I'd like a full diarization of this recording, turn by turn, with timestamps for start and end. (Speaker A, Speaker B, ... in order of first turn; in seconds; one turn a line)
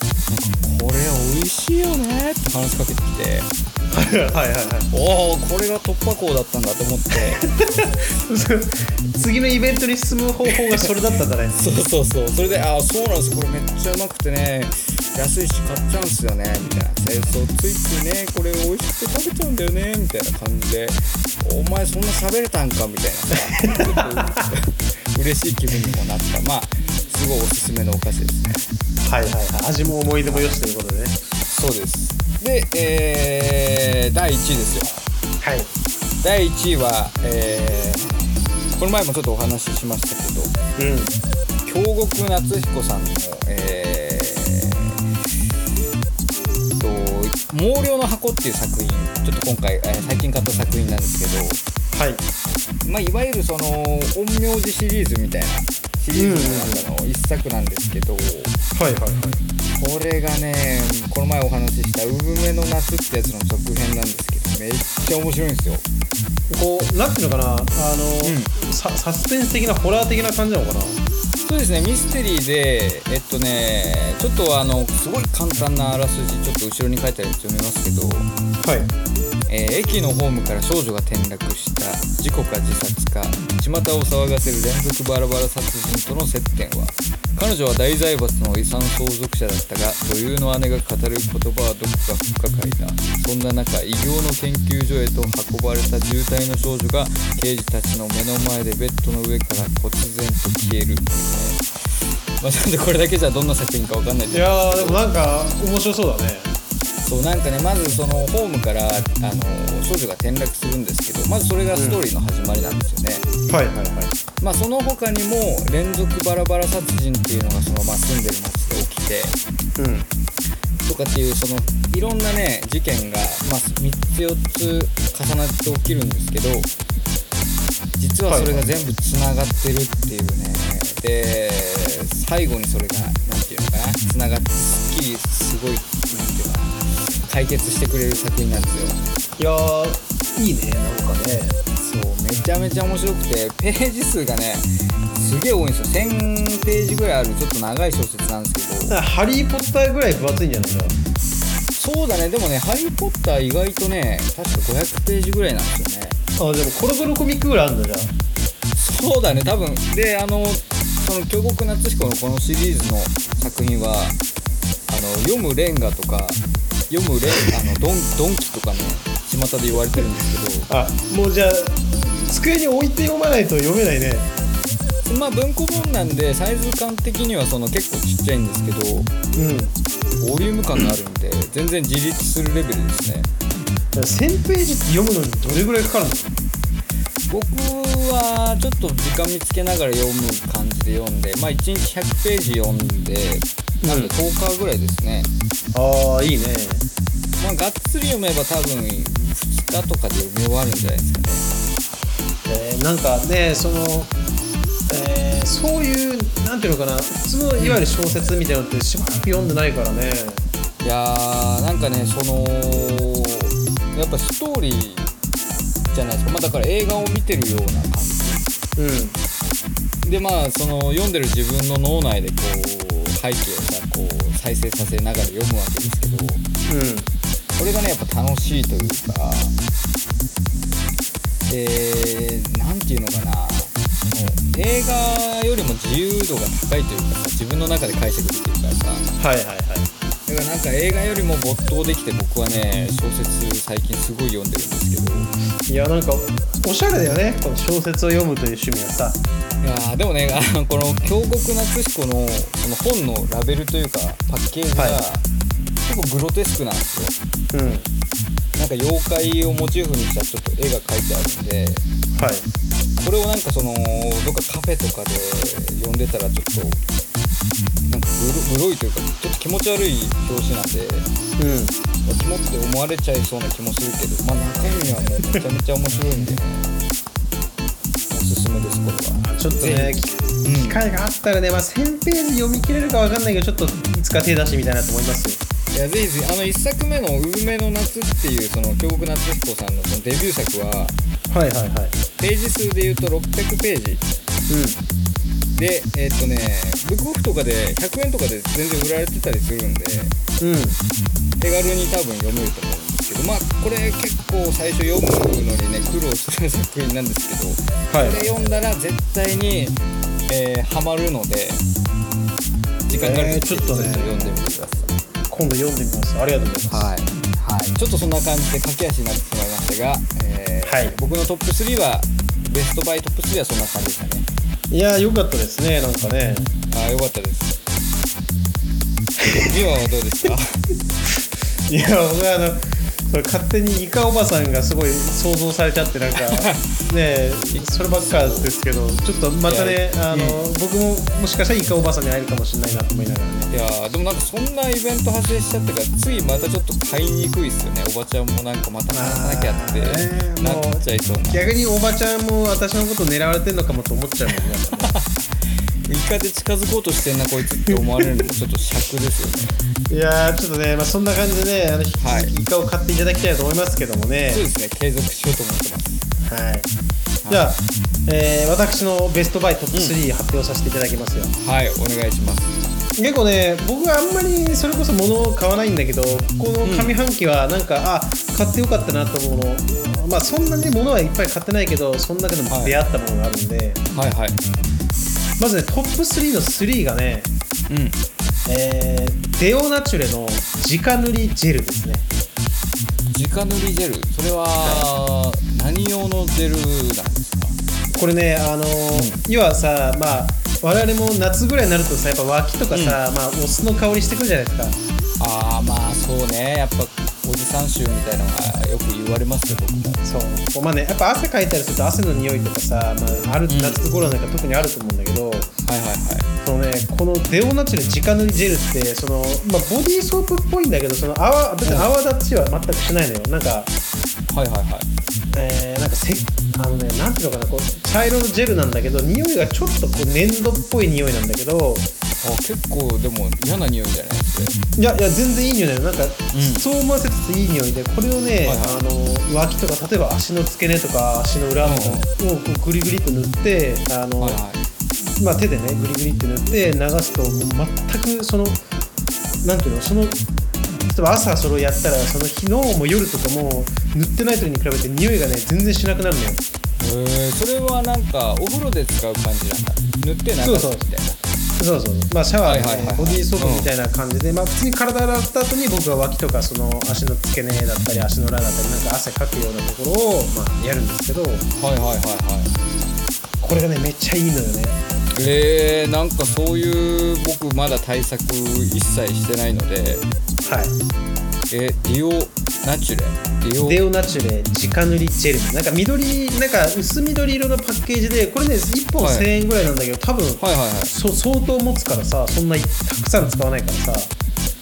Speaker A: 0.3-3.5
Speaker B: 3.9-4.9
Speaker A: 4.9-7.4
Speaker B: 7.4-11.6
Speaker A: 11.6-28.6
Speaker B: 23.6-24.1
Speaker B: 29.0-31.2
Speaker A: 31.5-35.0
Speaker B: 35.4-35.7
Speaker A: 36.2-40.5
Speaker B: 40.8-41.1
Speaker A: 41.6-45.0
Speaker A: 46.8-51.6
Speaker B: 51.9-52.2
Speaker A: 52.8-58.6
Speaker B: 56.1-56.9
Speaker B: 58.8-59.4
Speaker A: 59.7-65.8
Speaker B: 66.5-71.0
Speaker A: 68.2-68.5
Speaker A: 71.4-78.3
Speaker B: 78.6-78.9
Speaker A: 79.5-101.6
Speaker A: 102.4-105.0
Speaker B: 104.3-106.5
Speaker A: 107.0-113.3
Speaker B: 111.7-112.0
Speaker B: 113.5-114.1
Speaker A: 114.4-119.4
Speaker B: 119.8-120.1
Speaker A: 120.8-126.7
Speaker A: 128.0-139.0
Speaker B: 128.3-128.9
Speaker B: 139.4-141.6
Speaker A: 141.8-149.0
Speaker B: 148.9-150.9
Speaker A: 151.8-156.2
Speaker B: 156.4-158.1
Speaker A: 158.7-164.2
Speaker A: 164.9-170.7
Speaker B: 170.7-174.3
Speaker A: 175.0-179.1
Speaker B: 179.4-179.7
Speaker A: 180.2-183.3
Speaker B: 183.9-186.3
Speaker A: 187.3-195.3
Speaker B: 193.8-194.1
Speaker B: 195.7-196.8
Speaker A: 197.4-201.5
Speaker B: 202.4-204.1
Speaker B: 204.9-210.4
Speaker A: 210.8-215.1
Speaker A: 215.9-218.4
Speaker B: 218.8-219.2
Speaker A: 220.0-226.4
Speaker B: 226.6-227.1
Speaker A: 227.6-229.6
Speaker A: 231.5-239.1
Speaker B: 239.2-239.9
Speaker A: 240.3-245.3
Speaker B: 245.7-249.2
Speaker A: 249.6-255.2
Speaker B: 254.8-255.0
Speaker A: 255.8-257.1
Speaker B: 257.5-257.9
Speaker A: 258.6-261.8
Speaker B: 262.1-262.4
Speaker A: 263.0-266.8
Speaker A: 267.9-271.1
Speaker B: 271.4-271.8
Speaker A: 272.1-276.7
Speaker A: 278.1-280.8
Speaker B: 279.2-285.4
Speaker A: 285.7-290.9
Speaker B: 291.3-291.9
Speaker A: 292.2-294.0
Speaker B: 294.5-294.8
Speaker A: 295.6-300.1
Speaker B: 300.4-300.8
Speaker A: 301.4-311.6
Speaker B: 307.9-308.3
Speaker A: 312.9-315.0
Speaker B: 313.0-314.4
Speaker B: 315.3-316.9
Speaker A: 316.7-324.3
Speaker B: 320.6-320.9
Speaker B: 324.7-326.5
Speaker A: 326.7-327.6
Speaker B: 329.2-329.5
Speaker A: 329.4-330.6
Speaker B: 331.7-343.5
Speaker A: 336.2-336.9
Speaker A: 337.5-338.5
Speaker A: 339.4-340.5
Speaker A: 343.5-351.4
Speaker B: 348.9-354.9
Speaker A: 354.7-355.2
Speaker A: 355.9-359.6
Speaker B: 357.7-358.1
Speaker B: 359.9-364.4
Speaker A: 362.0-362.3
Speaker A: 364.3-366.0
Speaker B: 366.3-366.7
Speaker A: 367.2-367.5
Speaker B: 367.3-371.3
Speaker A: 369.7-370.0
Speaker A: 371.4-372.6
Speaker B: 373.0-383.8
Speaker A: 376.6-376.9
Speaker A: 382.5-382.8
Speaker A: 383.9-384.4
Speaker B: 385.4-387.3
Speaker A: 387.7-388.0
Speaker B: 388.4-392.1
Speaker A: 393.1-397.6
Speaker B: 394.6-394.9
Speaker B: 397.9-404.8
Speaker A: 398.9-399.2
Speaker A: 402.7-403.0
Speaker A: 405.2-410.0
Speaker B: 410.0-415.5
Speaker A: 413.5-413.8
Speaker A: 415.6-416.3
Speaker B: 416.4-423.7
Speaker A: 421.6-421.9
Speaker A: 424.3-424.9
Speaker B: 425.3-431.9
Speaker A: 432.2-434.6
Speaker B: 434.8-444.4
Speaker A: 436.3-436.6
Speaker A: 438.4-438.8
Speaker A: 441.6-442.1
Speaker A: 444.2-444.6
Speaker B: 445.2-448.6
Speaker B: 449.4-456.4
Speaker A: 456.8-461.2
Speaker B: 460.4-460.9
Speaker B: 461.6-471.4
Speaker A: 462.4-463.7
Speaker A: 471.6-472.5
Speaker B: 473.4-474.8
Speaker A: 475.1-480.1
Speaker B: 480.4-480.7
Speaker A: 481.5-483.8
Speaker B: 483.6-494.1
Speaker A: 489.0-489.3
Speaker A: 490.4-490.9